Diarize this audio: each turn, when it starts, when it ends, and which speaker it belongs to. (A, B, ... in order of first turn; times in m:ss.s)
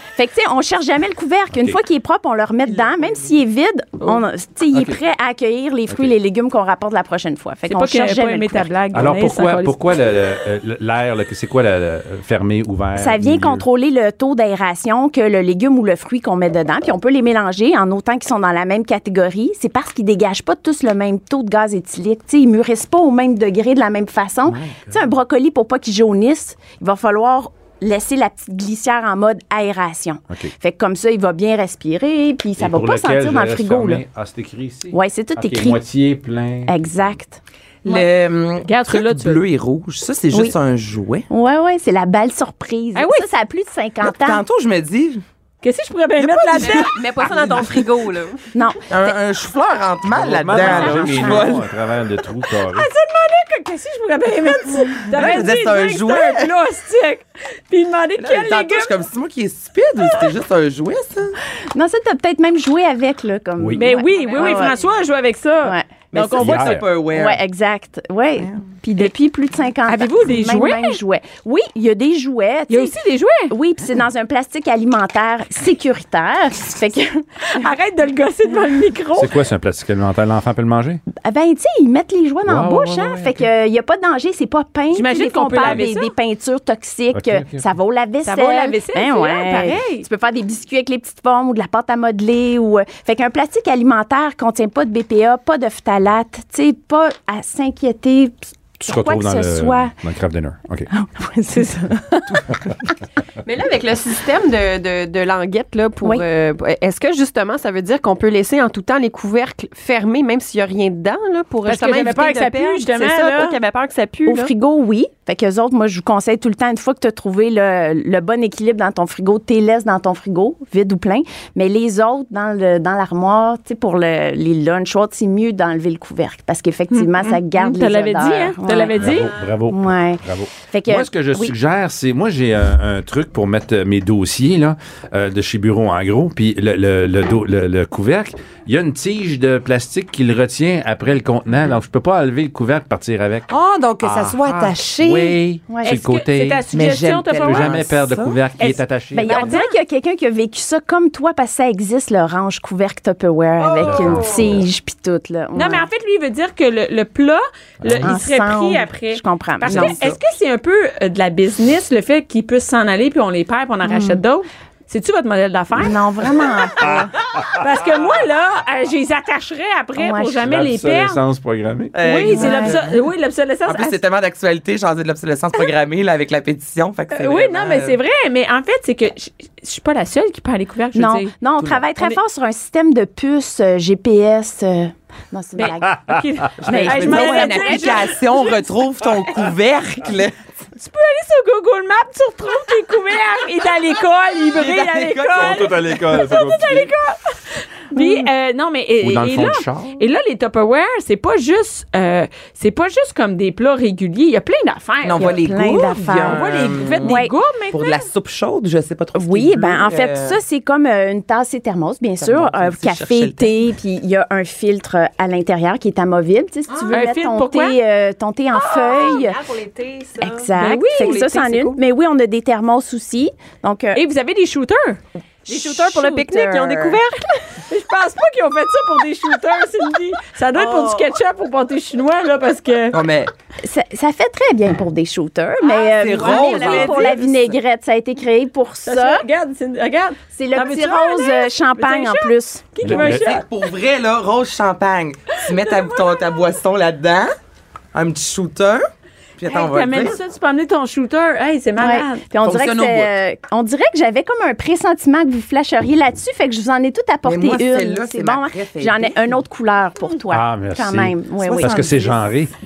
0:00.1-0:08.7 A
0:01.5-0:01.8 B
0:04.7-0:05.0 B
0:07.6-0:09.8 C
0:08.9-0:13.6 B
0:12.9-0:34.0 A
0:24.5-0:25.0 B
0:32.6-0:37.1 B
0:34.9-0:35.8 A
0:36.6-0:37.4 A
0:37.8-0:41.3 D
0:38.6-0:39.4 C
0:41.3-0:44.4 A
0:42.9-0:43.3 C
0:44.0-0:45.2 D
0:45.6-0:47.5 C
0:46.3-0:47.6 D
0:46.5-0:48.5 E
0:48.5-0:49.1 A
0:48.9-0:51.6 D
0:50.1-0:52.9 B
0:50.5-0:51.6 A
0:52.5-0:58.9 C
0:55.0-0:56.5 D
0:58.2-1:01.4 D
1:01.7-1:04.8 A
1:03.6-1:03.9 B
1:03.8-1:06.7 C
1:05.6-1:06.5 A
1:06.1-1:07.4 D
1:06.4-1:06.9 B
1:07.0-1:13.0 A
1:09.8-1:11.0 C
1:12.7-1:13.5 C
1:13.5-1:17.2 A
1:17.4-1:19.3 C
1:19.2-1:21.0 B
1:21.1-1:39.9 A
1:22.4-1:23.5 B
1:24.9-1:26.1 C
1:27.1-1:27.6 B
1:28.2-1:30.1 C
1:38.8-1:40.9 B
1:40.9-1:42.4 A
1:41.5-1:41.9 C
1:43.4-1:54.5 E
1:51.6-1:53.6 C
1:54.3-2:11.5 A
2:06.9-2:09.3 C
2:09.0-2:26.6 B
2:23.5-2:25.4 D
2:25.7-2:26.0 A
2:25.8-2:27.8 C
2:26.7-2:28.4 D
2:27.4-2:29.5 B
2:28.6-2:29.7 C
2:28.7-2:35.9 A
2:33.6-2:34.6 C
2:33.8-2:34.6 B
2:35.5-2:46.8 C
2:37.8-2:38.2 B
2:38.0-2:40.0 A
2:39.7-2:40.2 D
2:43.8-2:44.2 A
2:45.7-2:47.1 A
2:46.8-2:47.6 B
2:47.6-2:51.2 C
2:50.0-2:50.4 A
2:50.4-2:52.0 B
2:51.9-2:53.0 D
2:52.0-2:54.0 C
2:52.3-2:52.8 A
2:53.6-2:58.0 D
2:57.1-3:01.3 C
3:00.9-3:06.1 A
3:01.6-3:01.9 D
3:05.6-3:08.6 C
3:05.8-3:06.7 B
3:06.6-3:08.1 A
3:06.7-3:10.3 D
3:10.8-3:25.4 C
3:14.5-3:16.0 D
3:15.3-3:16.9 B
3:17.9-3:18.2 A
3:19.0-3:20.0 B
3:25.0-3:30.4 D
3:25.2-3:26.4 A
3:26.2-3:28.0 C
3:27.0-3:27.4 A
3:29.1-3:39.4 A
3:32.2-3:33.6 D
3:36.9-3:37.8 C
3:38.5-3:41.5 E
3:40.2-3:44.0 A
3:40.6-3:41.8 C
3:43.9-3:45.0 C
3:45.5-3:47.0 A
3:45.5-3:47.1 E
3:47.6-3:53.0 C
3:52.9-3:53.3 D
3:53.6-3:59.2 A
3:55.7-3:57.6 D
3:56.1-3:57.2 C
3:58.8-4:03.4 C
4:00.3-4:02.7 A
4:02.8-4:03.3 B
4:02.9-4:07.3 D
4:05.4-4:06.4 C
4:07.9-4:08.8 D
4:09.4-4:10.2 D
4:09.5-4:12.2 C
4:11.8-4:22.2 A
4:12.4-4:13.2 D
4:17.2-4:19.4 D
4:20.3-4:22.5 B
4:21.4-4:22.0 D